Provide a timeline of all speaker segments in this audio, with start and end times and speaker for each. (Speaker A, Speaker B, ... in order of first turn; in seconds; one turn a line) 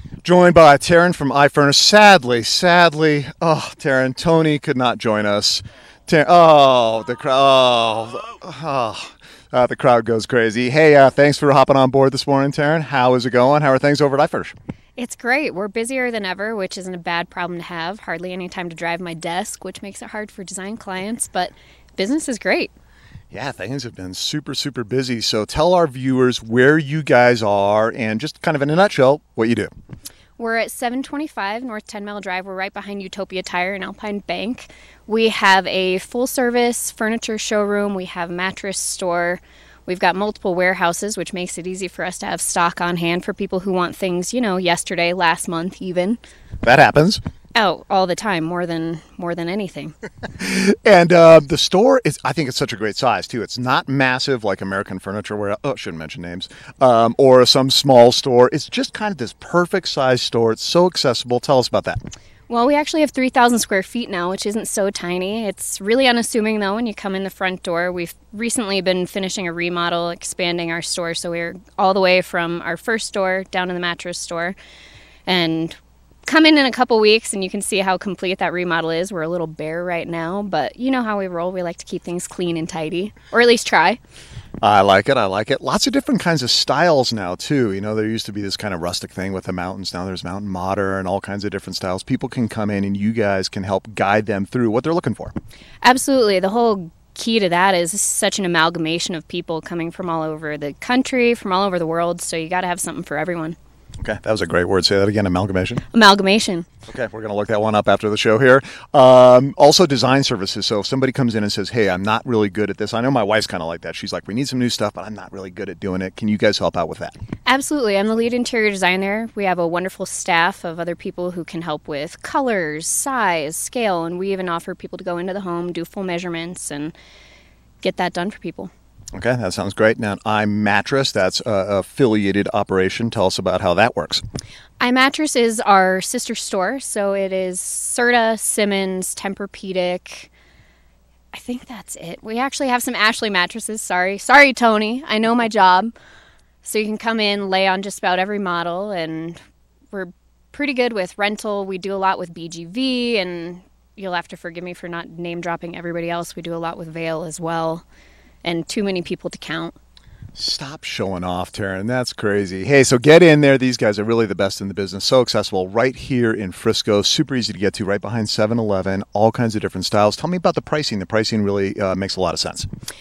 Speaker A: 0.2-14.6
Speaker B: 15.0-22.7
Speaker A: 23.3-29.7
Speaker B: 30.4-46.2
Speaker A: 46.6-47.2
Speaker B: 47.5-49.9
Speaker A: 50.4-62.0
Speaker B: 62.5-74.6
Speaker B: 75.3-84.0
Speaker A: 84.6-95.3
Speaker B: 95.8-103.6
Speaker A: 104.0-105.8
Speaker B: 105.9-106.7
Speaker A: 106.9-117.2
Speaker B: 117.5-126.9
Speaker B: 127.8-128.7
Speaker A: 129.1-134.2
Speaker B: 134.8-140.3
Speaker B: 141.3-145.9
Speaker B: 146.6-149.4
Speaker B: 149.9-157.8
Speaker B: 158.4-159.8
Speaker A: 160.3-172.7